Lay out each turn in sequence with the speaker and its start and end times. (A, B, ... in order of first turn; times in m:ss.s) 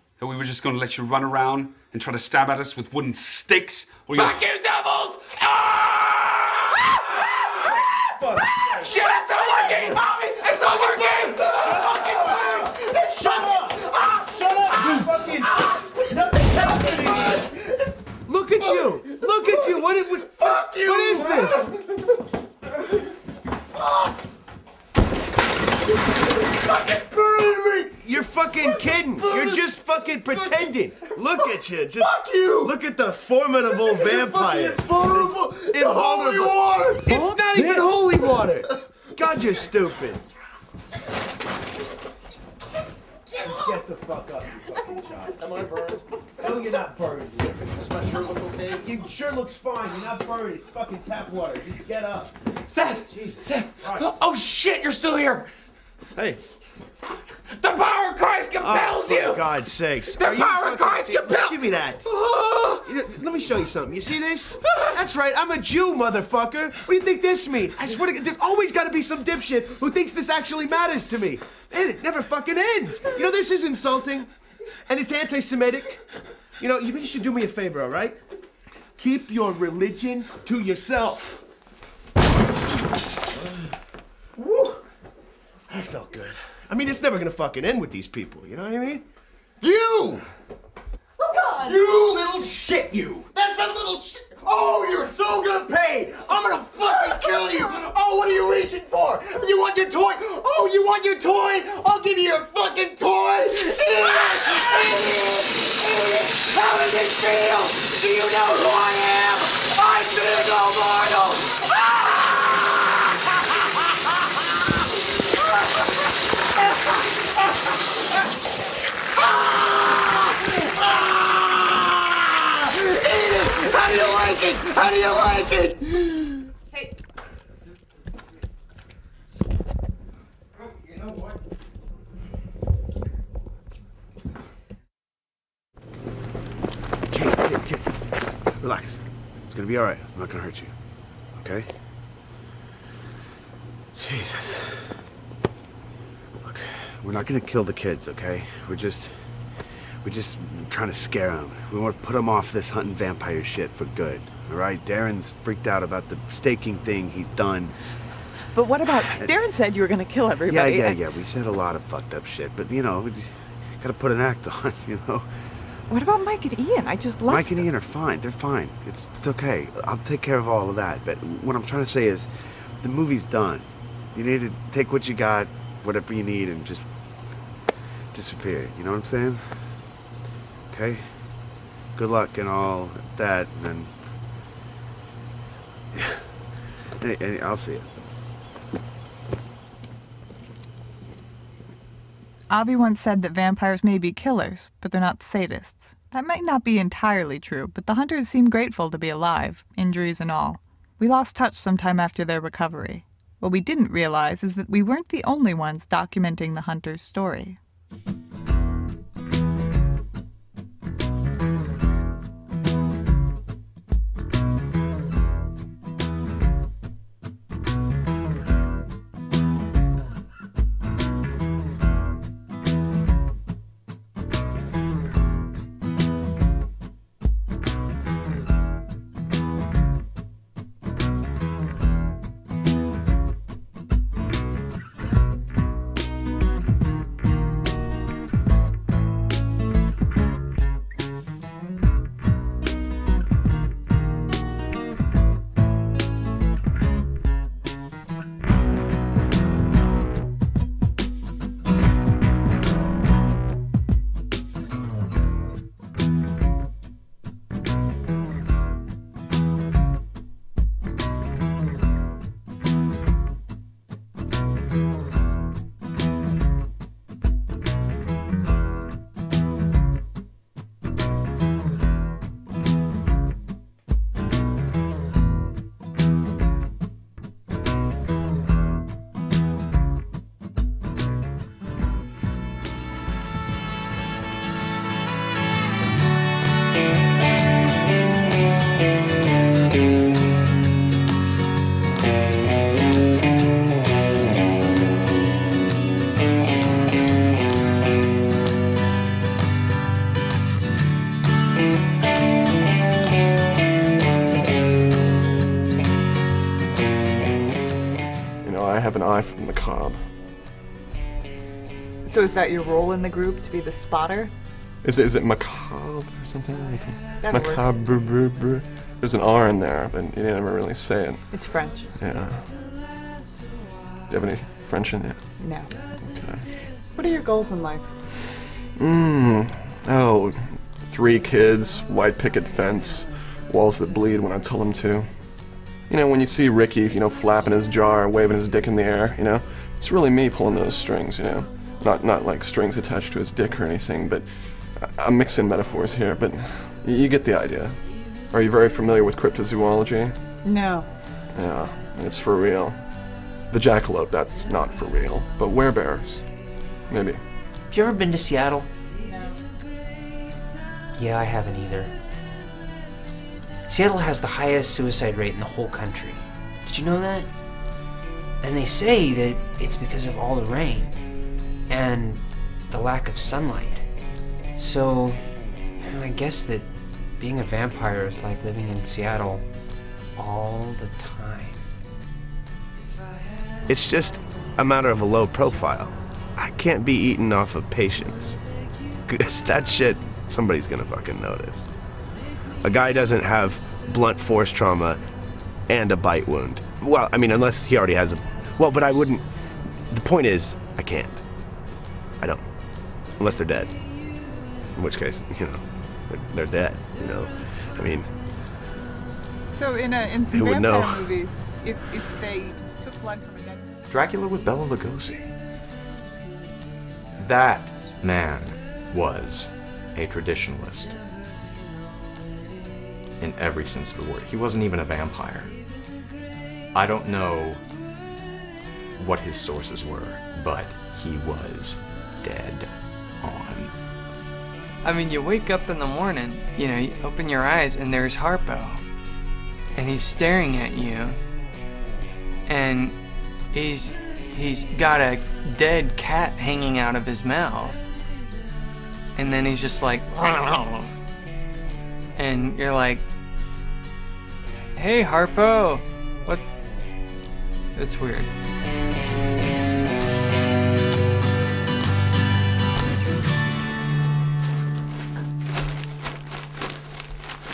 0:00.2-0:04.4 A
0:04.2-0:07.8 B
0:08.1-0:10.0 C
0:08.4-0:12.6 B
0:10.6-0:17.5 C
0:18.3-0:21.8 C
0:28.0-0:40.2 C
0:43.4-0:45.5 C
0:46.4-0:52.3 C
0:52.7-0:55.5 B
0:53.1-0:54.1 C
0:56.2-0:56.4 C
0:57.6-0:59.5 B
0:58.6-1:02.1 C
1:00.1-1:02.8 B
1:02.8-1:14.3 C
1:14.9-1:16.0 C
1:16.6-1:18.2 C
1:19.0-1:21.4 C
1:23.4-1:23.7 C
1:25.7-1:29.0 C
1:34.1-1:36.9 D
1:38.0-1:43.1 D
2:04.5-2:05.5 D
2:17.1-2:20.7 C
2:21.4-2:21.7 C
2:24.0-2:25.0 C
2:26.4-2:29.3 C
2:30.0-2:37.8 C
2:38.5-2:41.1 E
2:40.5-2:45.3 C
2:45.9-2:47.7 E
2:47.3-2:56.8 C
2:58.1-2:59.8 C
3:00.7-3:01.3 C
3:02.0-3:03.9 C
3:05.9-3:06.2 C
3:07.0-3:07.8 C
3:12.5-3:27.6 E
5:08.4-5:10.0 F
5:12.1-5:14.3 E
5:14.8-5:21.4 F
5:17.2-5:17.7 E
5:21.3-5:22.0 E
5:22.0-5:22.5 F
5:24.1-5:25.4 F
5:25.4-5:25.8 E
5:26.2-5:26.5 F
5:26.9-5:27.9 E
5:28.8-5:50.2 F
5:50.4-5:50.9 E
5:51.3-5:52.8 F
5:53.5-5:57.2 F
5:57.7-5:58.7 G
5:59.0-5:59.4 E
6:00.9-6:01.9 G
6:03.7-6:07.3 G
6:08.4-6:11.0 G
6:11.7-6:13.9 G
6:14.6-6:15.2 G
6:15.8-6:19.5 G
6:20.2-6:21.7 G
6:23.7-6:28.4 C
6:29.0-6:31.7 C
6:32.6-6:35.0 C
6:35.7-6:41.2 C
6:42.2-6:42.5 C
6:43.1-6:43.9 C
6:44.7-6:48.2 C
6:49.5-6:53.7 E
6:50.3-6:51.1 C
6:53.9-6:55.3 H
6:57.2-7:01.0 H
7:03.2-7:05.6 H
7:06.7-7:07.7 H
7:09.0-7:13.7 H
7:14.8-7:18.8 I
7:19.8-7:21.2 I
7:22.5-7:23.0 I
7:23.5-7:27.8 I
7:29.2-7:30.9 I
7:32.2-7:33.0 I
7:34.8-7:36.4 I
7:37.8-7:38.3 I